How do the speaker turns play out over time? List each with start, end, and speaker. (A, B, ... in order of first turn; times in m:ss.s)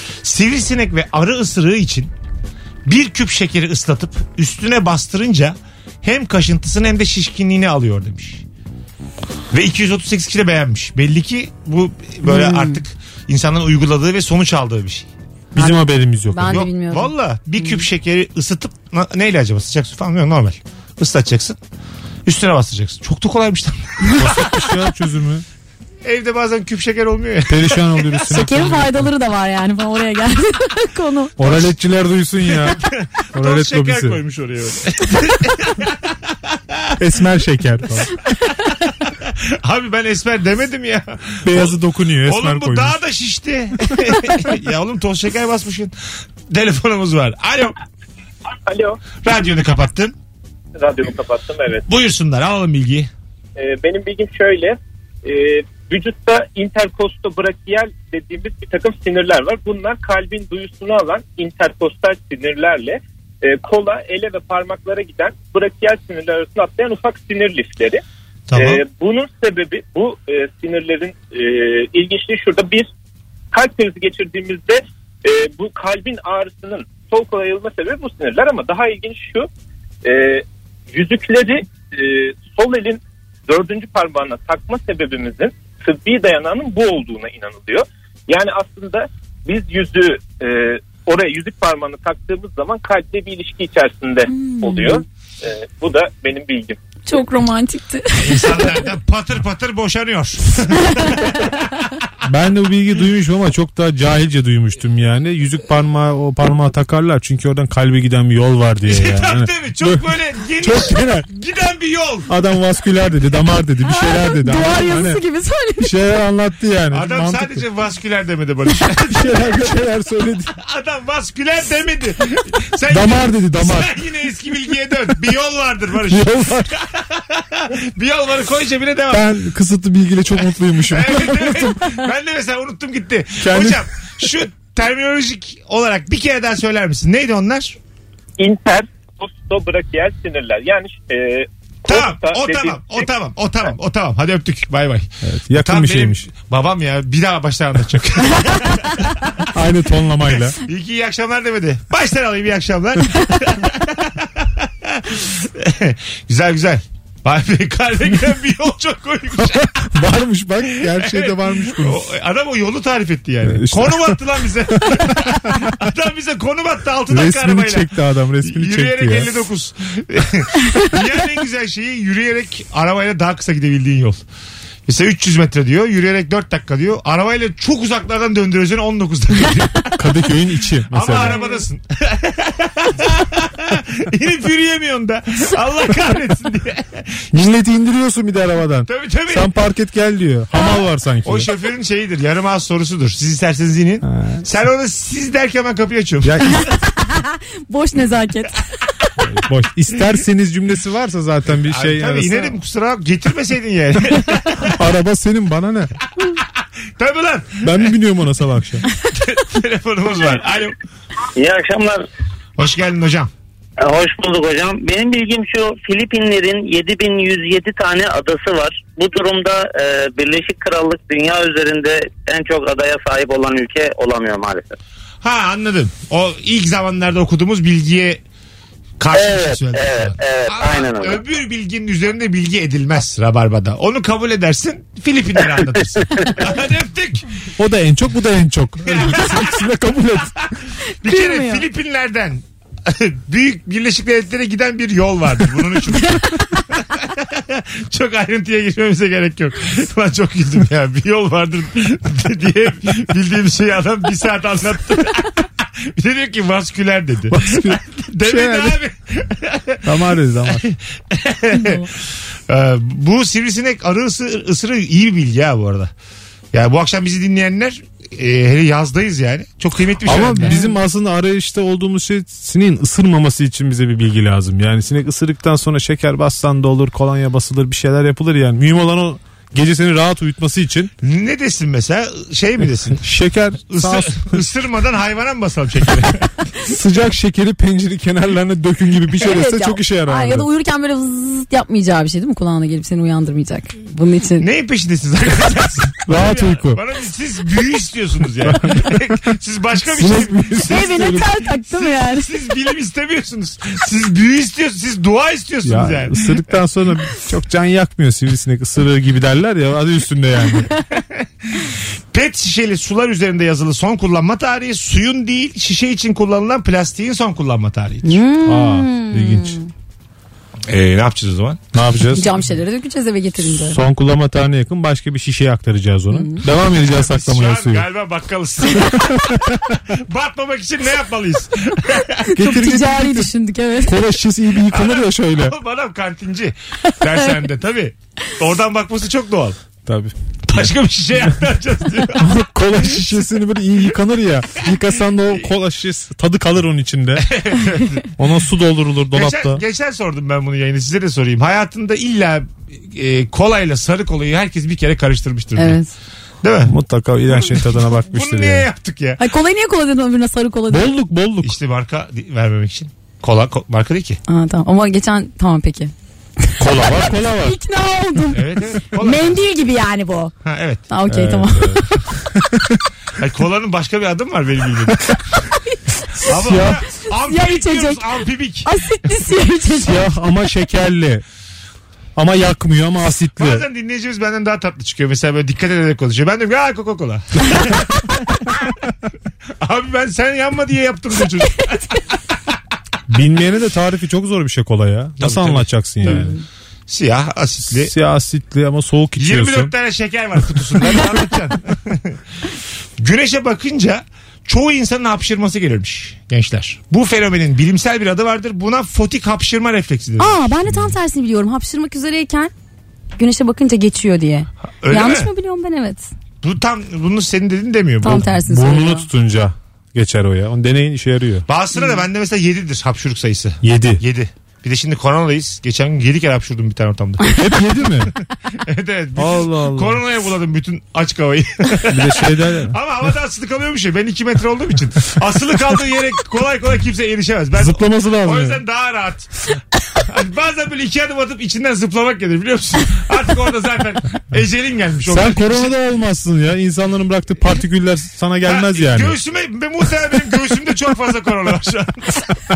0:00.2-0:02.1 A
0:02.8-0:08.4 A
0:09.5-0:15.1 A
0:12.2-0:12.8 B
0:15.5-0:16.7 C
0:16.3-0:17.9 B
0:16.4-0:21.6 A
0:22.2-0:24.2 A
0:24.1-0:25.4 C
0:26.0-0:27.7 A
0:27.5-0:29.1 C
0:28.2-0:31.4 B
0:31.4-0:34.2 C
0:32.7-0:36.9 A
0:37.0-0:38.1 C
0:39.0-0:45.9 A
0:41.4-0:43.0 C
0:46.5-0:47.8 A
0:48.7-0:49.0 D
0:49.2-0:50.2 A
0:50.8-0:51.8 D
0:51.9-0:53.1 A
0:53.6-1:08.0 D
1:08.5-1:08.8 A
1:08.6-1:12.9 D
1:13.5-1:19.5 D
1:20.0-1:36.8 D
1:34.3-1:35.0 B
1:37.1-1:38.8 B
1:38.2-1:41.3 A
1:42.2-1:50.0 C
1:48.9-1:52.3 A
1:50.6-1:51.3 C
1:52.3-1:55.2 C
1:53.9-1:55.9 B
1:55.8-1:57.6 C
1:56.9-1:59.7 A
1:59.1-2:00.5 C
2:00.6-2:09.3 A
2:02.9-2:03.9 C
2:06.1-2:06.7 C
2:09.1-2:11.9 C
2:10.8-2:17.8 A
2:13.4-2:13.9 C
2:18.4-2:23.1 D
2:21.8-2:29.5 A
2:25.2-2:26.3 C
2:29.5-2:30.6 C
2:30.4-2:39.9 A
2:39.6-2:42.1 C
2:40.7-2:47.9 A
2:43.4-2:44.2 C
2:45.2-2:45.6 C
2:47.1-2:49.4 C
2:48.4-2:54.2 A
2:54.8-3:00.0 A
3:00.0-3:01.4 C
3:00.9-3:07.1 A
3:01.2-3:01.6 B
3:07.3-3:11.5 C
3:08.9-3:09.5 A
3:11.2-3:16.7 A
3:14.0-3:14.4 C
3:16.2-3:16.7 C
3:16.6-3:18.7 B
3:19.2-3:22.6 C
3:21.7-3:24.8 A
3:24.7-3:25.9 C
3:27.0-3:27.9 A
3:27.6-3:28.8 C
3:29.1-3:30.8 A
3:31.4-3:32.1 E
3:32.6-3:33.3 A
3:33.8-3:44.8 E
3:45.2-3:48.2 A
3:49.0-3:57.3 A
3:49.1-3:51.2 E
3:56.0-3:56.4 E
3:57.6-4:00.4 C
3:58.9-3:59.6 A
4:01.0-4:19.8 A
4:01.0-4:01.6 B
4:06.0-4:06.3 B
4:17.3-4:18.8 C
4:19.8-4:20.7 C
4:20.5-4:25.9 A
4:26.5-4:30.6 A
4:30.0-4:40.9 C
4:30.4-4:30.7 B
4:41.0-4:43.1 A
4:43.0-4:44.4 C
4:43.7-4:46.4 A
4:46.7-4:50.5 C
4:49.1-4:54.5 B
4:54.4-5:01.1 A
4:56.1-4:56.8 C
4:58.4-4:59.0 C
4:59.9-5:01.3 C
5:00.6-5:02.3 B
5:01.7-5:06.3 A
5:05.6-5:10.7 C
5:10.9-5:18.2 A
5:18.0-5:19.7 B
5:18.4-5:19.6 C
5:20.7-5:21.6 A
5:21.7-5:22.5 C
5:22.1-5:23.8 B
5:23.4-5:27.9 C
5:26.1-5:26.4 B
5:26.8-5:32.3 A
5:29.0-5:29.8 C
5:32.3-5:34.0 B
5:32.3-5:33.3 C
5:33.8-5:35.6 C
5:34.7-5:39.6 A
5:39.8-5:40.7 C
5:40.4-5:43.2 A
5:42.2-5:47.3 C
5:47.2-5:48.1 A
5:48.2-5:49.6 C
5:49.1-5:55.8 A
5:55.6-5:55.9 B
5:56.4-5:59.2 A
5:56.7-5:58.7 C
5:59.2-6:00.9 B
6:00.7-6:01.6 C
6:01.4-6:04.2 A
6:04.3-6:05.9 B
6:06.4-6:10.3 B
6:06.6-6:07.6 C
6:08.3-6:09.4 A
6:10.4-6:10.8 A
6:10.9-6:12.0 B
6:11.1-6:12.8 C
6:13.2-6:15.1 A
6:15.5-6:16.3 B
6:16.2-6:16.8 C
6:16.3-6:18.8 A
6:17.1-6:18.0 B
6:18.6-6:20.0 B
6:19.8-6:21.2 C
6:22.1-6:23.6 C
6:23.4-6:28.7 A
6:29.6-6:32.0 A
6:33.1-6:36.3 C
6:35.2-6:36.3 A
6:36.9-6:37.9 A
6:37.7-6:39.7 C
6:39.2-6:42.2 A
6:40.8-6:41.1 C
6:43.0-6:50.8 A
6:50.2-6:52.5 B
6:53.2-6:56.1 B
6:54.8-6:55.3 A
6:56.4-6:58.3 A
6:58.0-6:59.1 B
6:58.0-7:01.4 C
7:01.5-7:07.3 A
7:03.6-7:04.0 C
7:07.3-7:08.1 C
7:08.6-7:25.7 A
7:09.2-7:10.0 C
7:11.9-7:12.8 C
7:17.6-7:18.6 C
7:25.1-7:29.2 C
7:28.5-7:32.2 A